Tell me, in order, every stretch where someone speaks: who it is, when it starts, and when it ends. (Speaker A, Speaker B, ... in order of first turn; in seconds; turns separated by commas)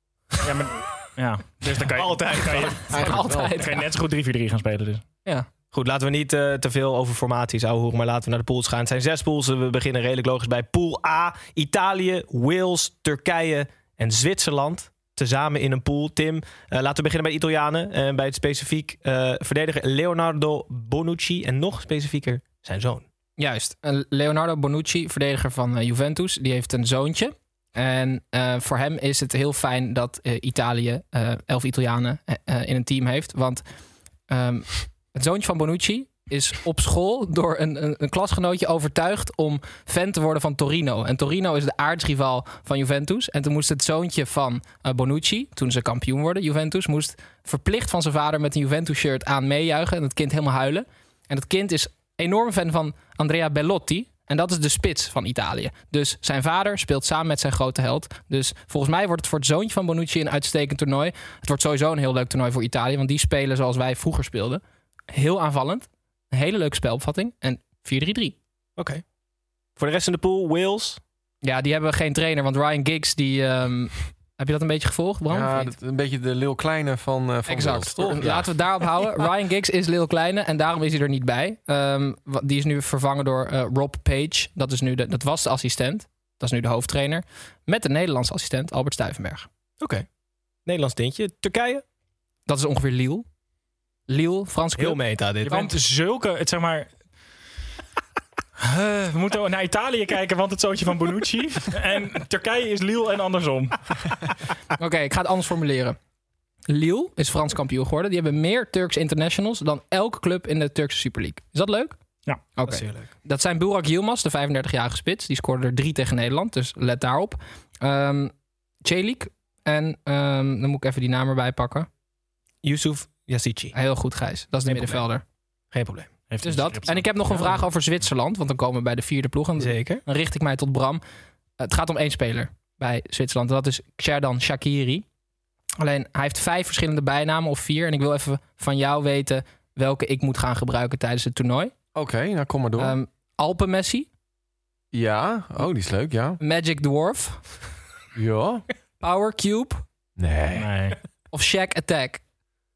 Speaker A: 0.4-2.9, Speaker B: 1.8-3.0, Speaker C: 2.9-3.8, Speaker D: 2.9-3.7, Speaker A: 3.5-5.0, Speaker B: 5.7-23.0, Speaker C: 23.4-33.6, Speaker C: 34.3-64.6, Speaker C: 65.1-68.4, Speaker B: 68.8-69.0, Speaker B: 69.8-71.0, Speaker C: 71.4-75.8, Speaker D: 75.3-78.5, Speaker C: 77.5-89.5, Speaker B: 89.8-90.0, Speaker B: 90.7-91.8, Speaker C: 92.5-93.2, Speaker C: 94.1-95.7, Speaker B: 94.8-95.6, Speaker A: 95.5-96.9, Speaker A: 98.6-103.8, Speaker C: 104.8-106.0, Speaker C: 106.7-112.0, Speaker C: 112.6-118.3, Speaker B: 112.7-113.1, Speaker C: 118.8-121.9, Speaker B: 122.6-123.8, Speaker C: 123.7-125.2, Speaker B: 124.7-125.0, Speaker B: 125.7-126.1, Speaker A: 126.3-127.5, Speaker C: 126.4-131.0, Speaker B: 129.6-130.0, Speaker C: 131.6-135.1, Speaker C: 135.8-141.7, Speaker D: 141.9-143.0, Speaker C: 142.8-144.1, Speaker D: 144.9-146.4, Speaker C: 146.4-147.4, Speaker D: 148.1-148.6, Speaker C: 149.0-149.8, Speaker D: 150.2-150.7, Speaker A: 150.5-151.0, Speaker C: 151.3-152.2